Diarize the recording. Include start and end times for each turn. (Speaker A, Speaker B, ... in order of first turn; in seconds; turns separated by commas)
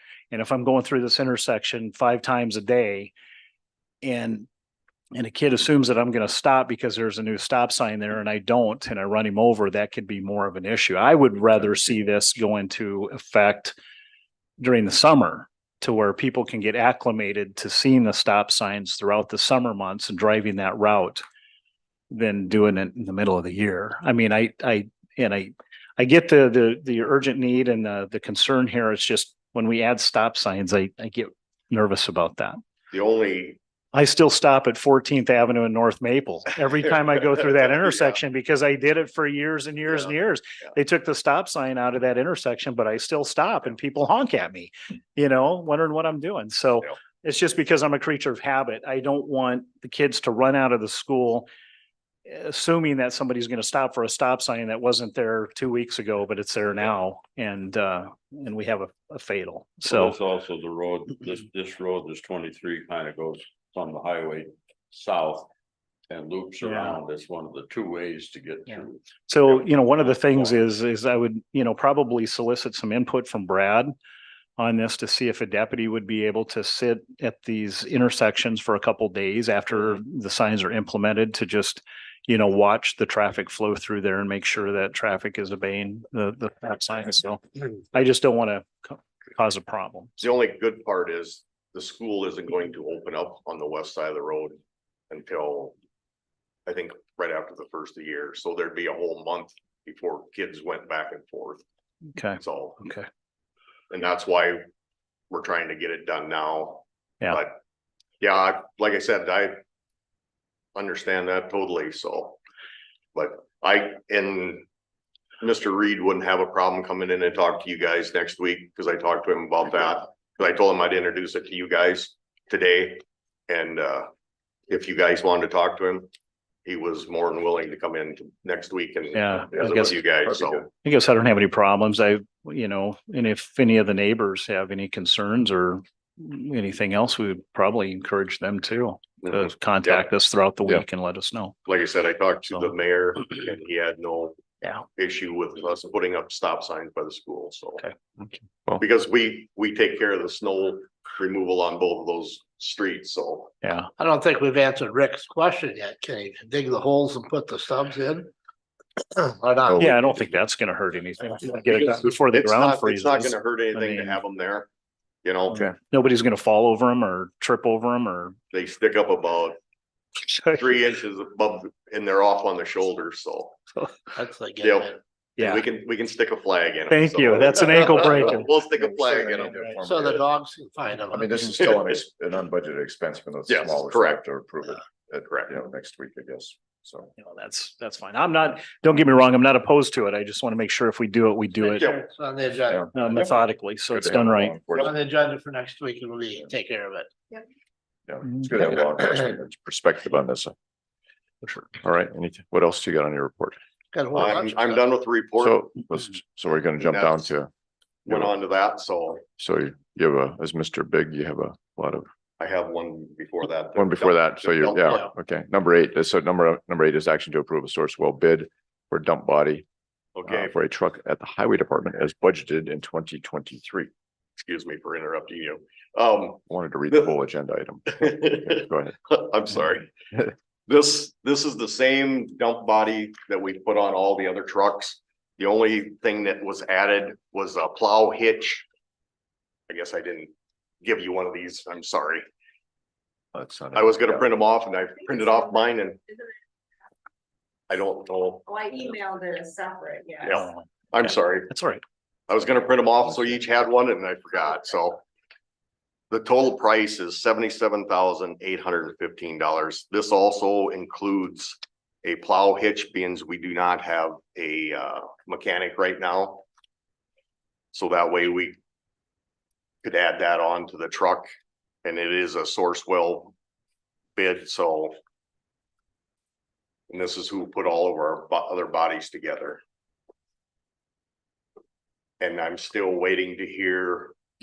Speaker A: 0.3-3.1, Speaker A: 4.0-4.5, Speaker A: 5.1-13.7, Speaker A: 14.6-21.2, Speaker A: 22.1-32.6, Speaker B: 32.9-33.6, Speaker A: 33.9-51.5, Speaker B: 37.8-38.1, Speaker A: 52.2-60.1, Speaker C: 59.9-65.4, Speaker C: 66.1-68.8, Speaker A: 69.3-73.9, Speaker A: 74.6-90.2, Speaker B: 90.2-94.6, Speaker B: 95.1-95.8, Speaker B: 96.7-101.6, Speaker A: 102.2-103.1, Speaker B: 102.4-102.8, Speaker B: 103.9-104.6, Speaker B: 105.3-107.6, Speaker B: 108.2-109.6, Speaker B: 110.7-112.4, Speaker B: 113.1-114.6, Speaker B: 115.4-124.1, Speaker B: 124.7-126.1, Speaker B: 126.7-130.7, Speaker A: 129.1-130.0, Speaker D: 130.2-130.7, Speaker A: 130.8-141.6, Speaker B: 139.2-140.1, Speaker B: 141.7-144.4, Speaker B: 144.9-147.8, Speaker B: 148.8-153.5, Speaker A: 153.6-153.9, Speaker E: 154.0-158.3, Speaker E: 159.0-159.9, Speaker D: 159.7-160.1, Speaker A: 159.8-164.2, Speaker B: 162.3-164.7, Speaker B: 165.2-165.6, Speaker A: 165.5-168.3, Speaker B: 168.5-169.6, Speaker B: 170.5-173.6, Speaker E: 174.1-174.9, Speaker B: 174.6-179.7, Speaker A: 175.4-175.6, Speaker A: 176.9-178.5, Speaker D: 178.9-180.3, Speaker E: 179.8-181.3, Speaker D: 181.1-187.1, Speaker B: 183.5-184.2, Speaker A: 187.2-191.8, Speaker E: 191.6-193.1, Speaker D: 192.7-194.9, Speaker A: 192.9-194.6, Speaker E: 194.8-197.1, Speaker D: 198.1-200.5, Speaker D: 201.8-203.6, Speaker E: 203.9-204.8, Speaker B: 204.1-205.7, Speaker D: 205.4-207.5, Speaker B: 206.8-207.3, Speaker B: 208.0-209.2, Speaker D: 208.1-208.3, Speaker D: 209.4-212.1, Speaker B: 212.4-215.1, Speaker D: 213.8-219.7, Speaker B: 220.2-220.5, Speaker D: 220.3-223.9, Speaker B: 224.4-227.1, Speaker D: 226.5-229.0, Speaker B: 227.9-229.9, Speaker B: 230.7-238.7, Speaker B: 239.7-240.3, Speaker B: 240.8-242.2, Speaker D: 243.3-244.3, Speaker B: 243.7-246.0, Speaker F: 245.1-245.5, Speaker B: 247.7-248.5, Speaker F: 248.5-250.4, Speaker B: 250.2-251.5, Speaker A: 251.5-251.8, Speaker B: 252.3-255.0, Speaker B: 256.1-266.4, Speaker B: 267.7-268.6, Speaker B: 269.8-271.3, Speaker B: 271.8-273.3, Speaker B: 274.1-274.9, Speaker B: 276.9-279.6, Speaker B: 282.2-284.1